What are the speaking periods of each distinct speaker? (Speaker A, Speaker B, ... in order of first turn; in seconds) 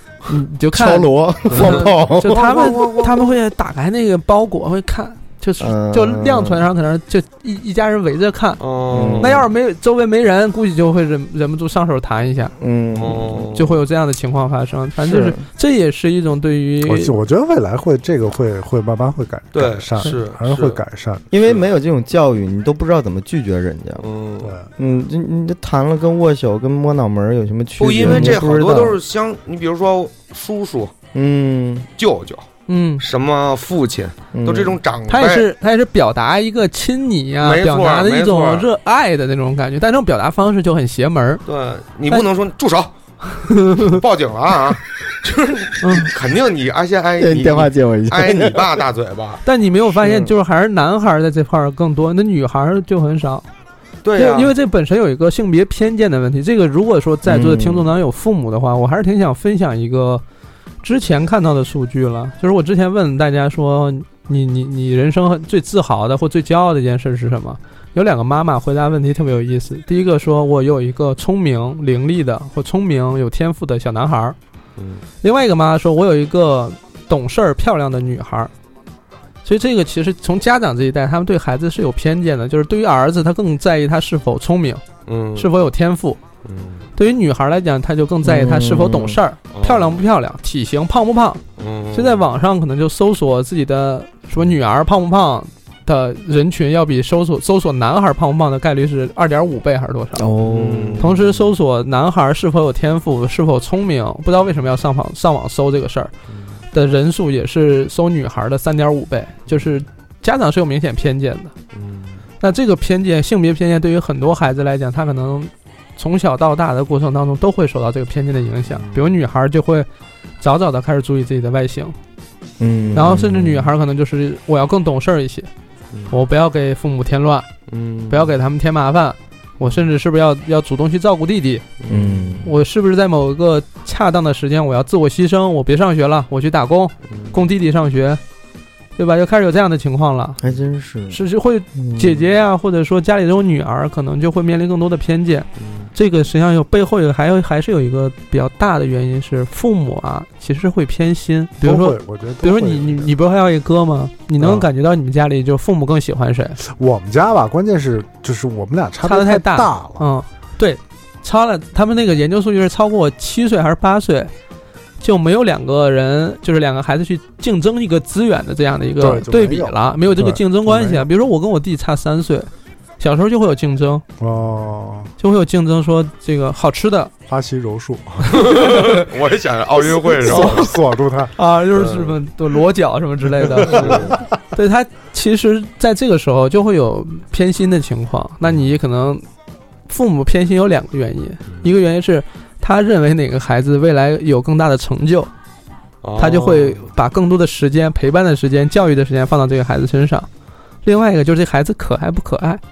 Speaker A: 0.3-8.6, 9.2-12.5, 13.5-17.1, 28.0-28.4, 32.7-33.0, 35.1-41.4, 43.4-44.0, 45.8-46.1, 49.5-53.5, 54.1-60.2, 60.8-74.4, 75.2-78.5, 79.4-84.8, 85.4-86.2, 87.0-91.4, 91.9-100.3, 101.0-106.1, 106.7-111.5, 112.4-119.9, 120.4-122.0, 122.9-125.5, 126.1-127.5, 128.1-131.7, 132.4-138.2, 139.0-140.4, 141.1-156.6, 159.0-164.3, 165.0-172.5, 173.0-174.0, 175.2-177.1, 178.3-179.0, 180.2-180.8, 181.3-189.2, 189.9-195.3, 196.2-200.3, 200.8-202.6
Speaker B: 0.7-2.7, 5.6-6.6, 8.9-9.5, 12.6-13.5, 15.0-15.4, 21.3-24.1, 24.8-29.0, 31.1-31.9, 34.3-34.8, 47.2-48.8, 50.0-50.3, 57.3-57.9, 88.2-89.2, 100.2-101.2, 122.6-123.2, 131.9-132.5, 140.4-141.2, 141.8-142.2
Speaker C: 1.5-3.3, 8.6-9.4, 12.9-13.8, 19.5-20.8, 21.4-21.7, 24.0-24.6, 27.8-30.9, 32.0-32.5, 33.0-35.5, 37.4-38.7, 41.5-42.9, 43.7-49.4, 54.0-54.5, 74.8-75.0, 85.1-85.5, 86.4-86.8, 89.5-90.0, 91.6-92.2, 100.5-101.4, 111.7-112.2, 118.7-119.1, 122.8-123.7, 127.7-128.3, 129.6-129.9, 131.8-132.5, 137.1-137.4, 145.6-145.9, 178.3-180.7, 181.7-182.2, 183.6-184.2, 196.0-196.9
Speaker D: 16.8-21.2, 24.4-24.7, 151.6-153.1, 154.4-154.7, 156.6-160.1, 169.0-171.1, 174.2-175.1, 177.3-178.6, 180.2-181.3, 183.6-184.2